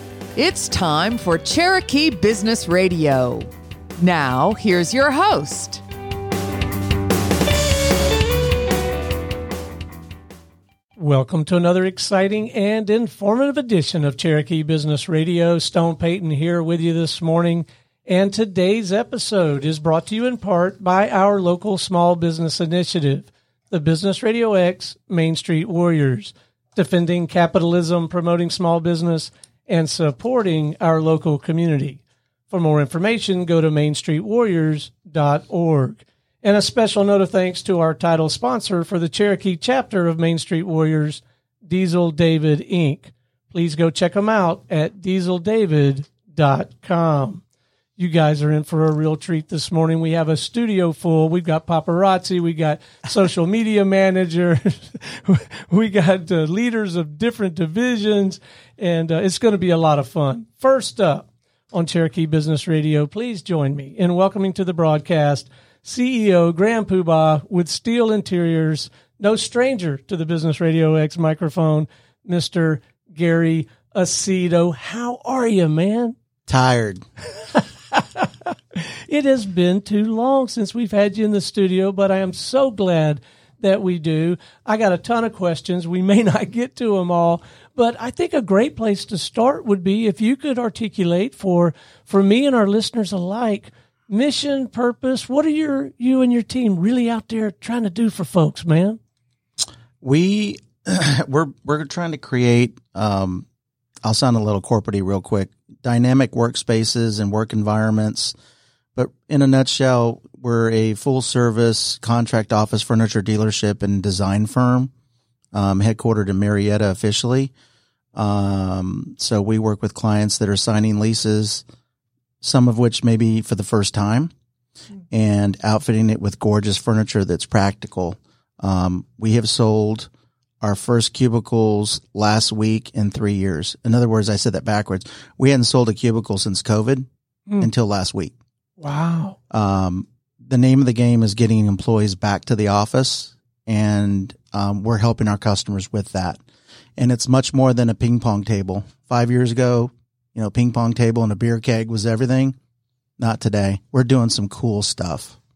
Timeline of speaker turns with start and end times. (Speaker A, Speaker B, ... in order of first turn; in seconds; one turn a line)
Speaker A: 0.3-5.8
Speaker B: 11.0-47.4
Speaker B: 48.0-76.2
Speaker C: 76.5-77.0
Speaker B: 77.9-99.0
Speaker C: 100.0-103.5
Speaker C: 104.0-108.3
Speaker C: 108.9-114.9
Speaker C: 115.5-117.5
Speaker C: 118.1-121.6
Speaker C: 122.4-124.3
Speaker C: 125.1-130.1
Speaker C: 130.6-137.1
Speaker C: 137.6-138.3
Speaker B: 138.8-139.4
Speaker C: 139.5-146.4
Speaker C: 147.0-152.6
Speaker C: 153.2-155.3